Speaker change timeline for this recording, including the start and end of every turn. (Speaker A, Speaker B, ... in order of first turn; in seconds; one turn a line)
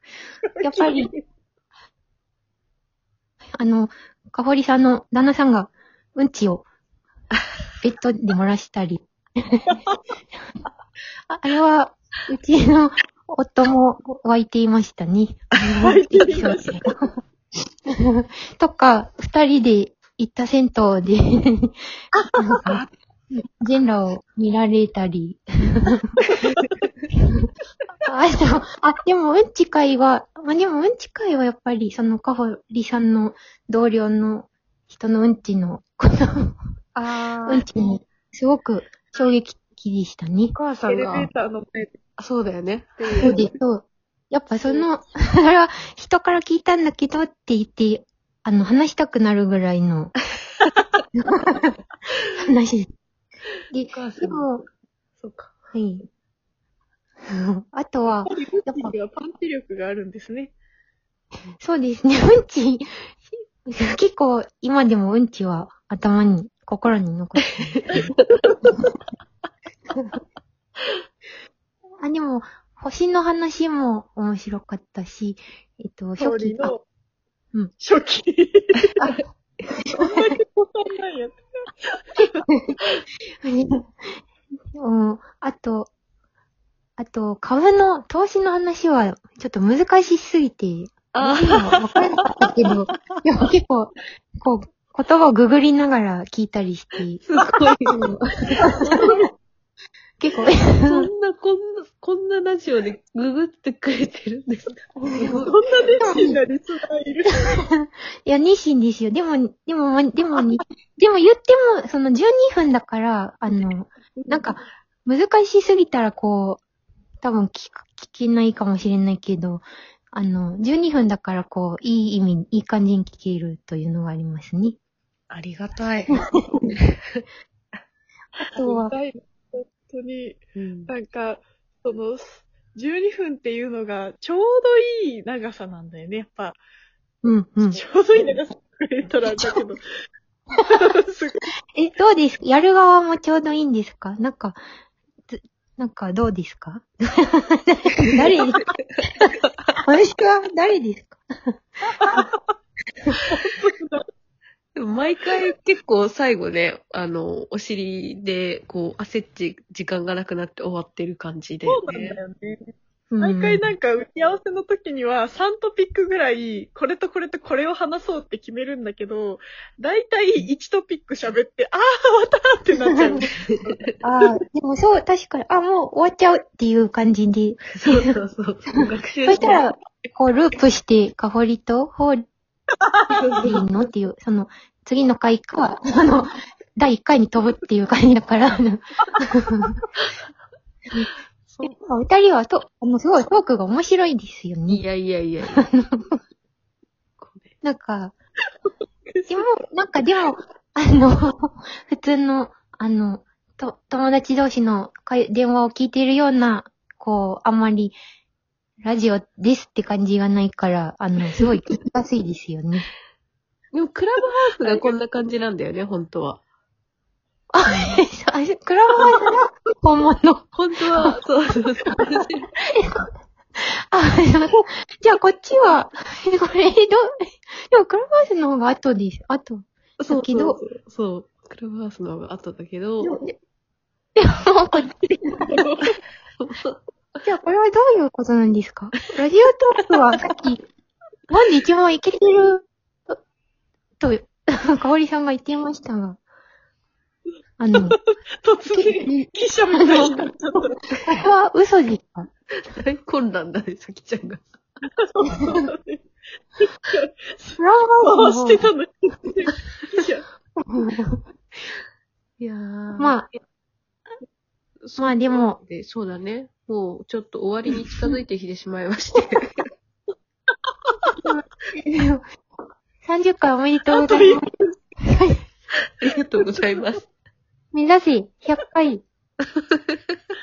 Speaker A: 0.6-1.2
Speaker B: 0.6-1.1
Speaker B: 3.6-6.7
Speaker B: 7.8-9.7
Speaker B: 11.3-17.1
Speaker A: 15.8-16.8
Speaker B: 17.9-21.8
Speaker A: 22.1-22.8
Speaker B: 22.4-26.2
Speaker B: 27.1-27.5
Speaker B: 28.1-36.6
Speaker C: 37.0-37.6
Speaker B: 37.5-40.5
Speaker C: 40.5-41.3
Speaker A: 40.9-42.0
Speaker C: 42.2-43.4
Speaker A: 43.0-43.4
Speaker B: 43.2-50.2
Speaker B: 51.1-51.8
Speaker B: 52.3-52.9
Speaker B: 53.7-54.6
Speaker C: 53.9-54.5
Speaker C: 55.2-55.6
Speaker B: 55.7-56.1
Speaker B: 57.3-58.9
Speaker A: 58.3-60.5
Speaker B: 61.6-63.0
Speaker B: 63.6-68.1
Speaker C: 67.9-68.8
Speaker B: 72.0-76.7
Speaker A: 76.2-76.8
Speaker A: 77.8-79.0
Speaker B: 79.8-80.2
Speaker A: 79.9-82.4
Speaker B: 82.2-82.8
Speaker B: 83.4-84.1
Speaker B: 84.8-85.9
Speaker B: 87.0-97.3
Speaker C: 91.1-92.1
Speaker C: 97.2-98.2
Speaker B: 97.9-98.2
Speaker C: 98.8-99.1
Speaker B: 100.2-101.1
Speaker C: 100.9-105.6
Speaker B: 105.0-105.4
Speaker A: 105.3-107.6
Speaker B: 106.0-106.4
Speaker B: 107.5-116.6
Speaker A: 113.5-114.5
Speaker B: 117.2-124.8
Speaker C: 125.3-126.2
Speaker B: 126.3-126.7
Speaker A: 128.5-136.6
Speaker B: 128.6-128.9
Speaker C: 130.6-130.9
Speaker B: 137.2-137.8
Speaker A: 137.7-139.8
Speaker B: 139.3-139.6
Speaker A: 140.7-141.4
Speaker B: 141.8-144.6
Speaker B: 145.3-152.2
Speaker A: 152.0-152.3
Speaker A: 153.2-154.0
Speaker C: 154.8-162.2
Speaker A: 161.7-162.7
Speaker B: 163.1-163.7
Speaker A: 163.2-173.3
Speaker B: 174.0-178.1
Speaker C: 177.7-179.6
Speaker B: 179.2-182.3
Speaker A: 182.8-183.5
Speaker C: 183.1-183.7
Speaker B: 183.4-189.7
Speaker C: 191.5-191.8
Speaker B: 191.6-194.8
Speaker C: 194.7-195.7
Speaker B: 195.6-196.2
Speaker C: 197.2-197.5
Speaker B: 197.6-198.2
Speaker A: 199.1-199.5
Speaker B: 199.3-208.0
Speaker B: 208.8-212.9
Speaker C: 213.7-216.4
Speaker B: 217.5-221.2
Speaker C: 220.5-222.5
Speaker B: 221.9-230.6
Speaker C: 230.0-233.2
Speaker B: 233.0-233.4
Speaker B: 234.2-235.6
Speaker A: 235.5-235.9
Speaker C: 236.4-236.8
Speaker B: 237.2-240.6
Speaker B: 241.3-243.2
Speaker B: 244.0-246.2
Speaker B: 247.6-248.0
Speaker A: 247.8-250.8
Speaker B: 248.7-250.1
Speaker B: 251.0-252.3
Speaker C: 252.7-254.6
Speaker A: 254.9-256.0
Speaker A: 256.6-260.2
Speaker B: 257.6-258.7
Speaker B: 260.6-261.2
Speaker C: 262.4-263.3
Speaker B: 263.0-263.3
Speaker C: 264.8-269.6
Speaker B: 265.0-265.6
Speaker B: 271.2-272.2
Speaker B: 273.0-274.4
Speaker A: 273.9-274.7
Speaker B: 275.0-275.4
Speaker C: 276.0-277.0
Speaker B: 277.7-279.0